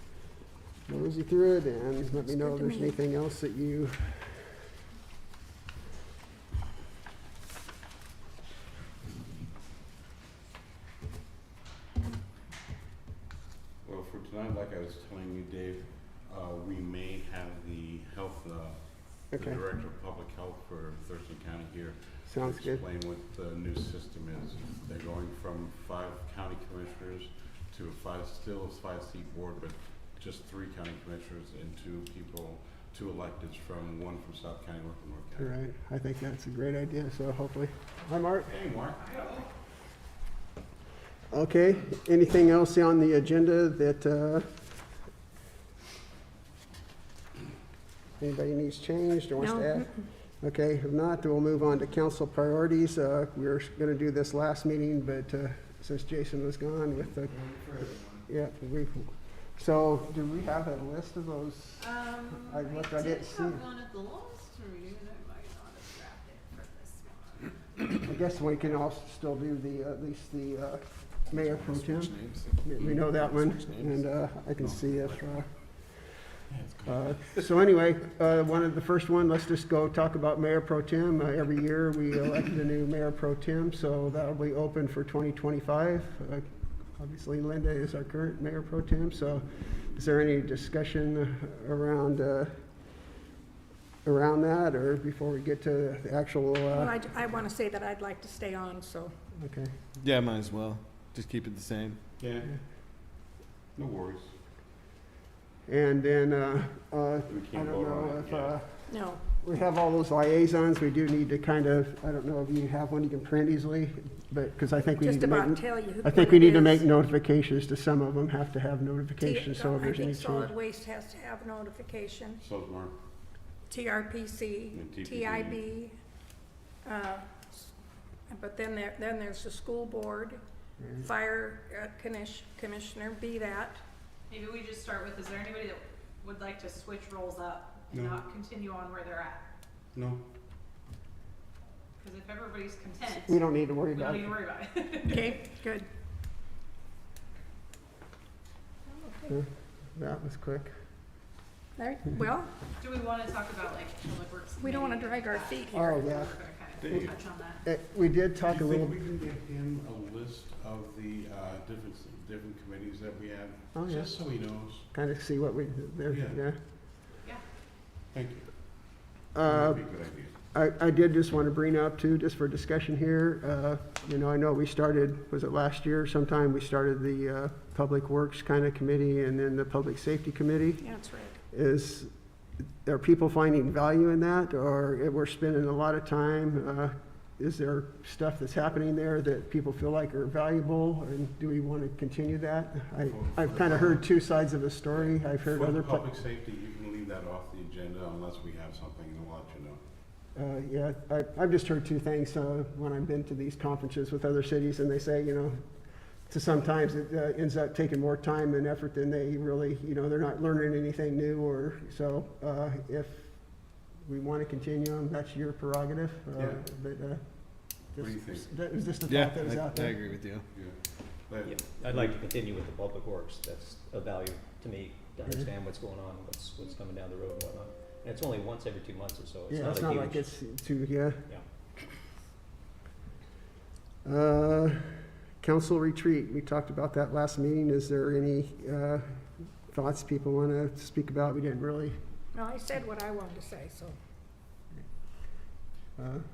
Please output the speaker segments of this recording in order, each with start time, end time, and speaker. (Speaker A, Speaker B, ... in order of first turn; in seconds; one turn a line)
Speaker A: 0.9-4.4
Speaker B: 2.1-3.0
Speaker C: 13.8-35.5
Speaker A: 19.3-19.6
Speaker A: 22.2-22.8
Speaker A: 35.4-38.5
Speaker C: 38.5-39.0
Speaker D: 39.0-39.5
Speaker A: 41.3-44.5
Speaker A: 48.2-49.9
Speaker B: 49.4-50.0
Speaker A: 50.4-57.4
Speaker E: 57.4-58.2
Speaker A: 58.2-63.6
Speaker D: 61.8-67.8
Speaker A: 67.9-75.5
Speaker E: 71.3-74.1
Speaker C: 74.6-75.2
Speaker C: 76.5-77.5
Speaker A: 76.9-92.6
Speaker A: 94.0-96.9
Speaker B: 96.7-99.1
Speaker A: 99.4-99.7
Speaker E: 100.0-102.0
Speaker C: 102.2-102.5
Speaker C: 103.7-104.3
Speaker A: 105.7-120.5
Speaker C: 107.3-108.5
Speaker B: 108.9-109.2
Speaker B: 115.0-116.9
Speaker B: 119.2-122.4
Speaker C: 122.4-122.9
Speaker B: 123.7-126.0
Speaker C: 124.7-125.6
Speaker B: 126.8-127.7
Speaker B: 128.3-130.4
Speaker A: 130.8-131.1
Speaker B: 131.0-133.8
Speaker D: 134.3-139.4
Speaker C: 137.9-138.2
Speaker C: 139.9-140.2
Speaker D: 142.0-145.4
Speaker A: 143.2-144.3
Speaker B: 145.0-145.9
Speaker B: 148.9-149.4
Speaker A: 149.3-150.7
Speaker B: 151.8-152.5
Speaker D: 152.8-157.6
Speaker B: 154.6-155.9
Speaker A: 155.7-156.3
Speaker C: 156.8-157.2
Speaker A: 157.6-158.9
Speaker C: 158.4-164.9
Speaker A: 163.7-164.1
Speaker A: 164.9-166.6
Speaker C: 166.1-166.4
Speaker C: 168.1-168.9
Speaker A: 169.3-169.8
Speaker C: 169.4-170.3
Speaker A: 170.5-180.8
Speaker B: 180.8-181.4
Speaker A: 181.5-182.1
Speaker A: 182.8-196.1
Speaker C: 193.0-194.1
Speaker C: 194.9-199.8
Speaker A: 200.3-205.6
Speaker A: 206.3-220.0
Speaker C: 216.3-216.6
Speaker C: 218.0-218.5
Speaker E: 219.0-220.5
Speaker C: 220.5-221.6
Speaker F: 221.4-230.3
Speaker A: 229.5-231.2
Speaker A: 234.0-242.0
Speaker B: 242.3-243.9
Speaker A: 246.0-246.2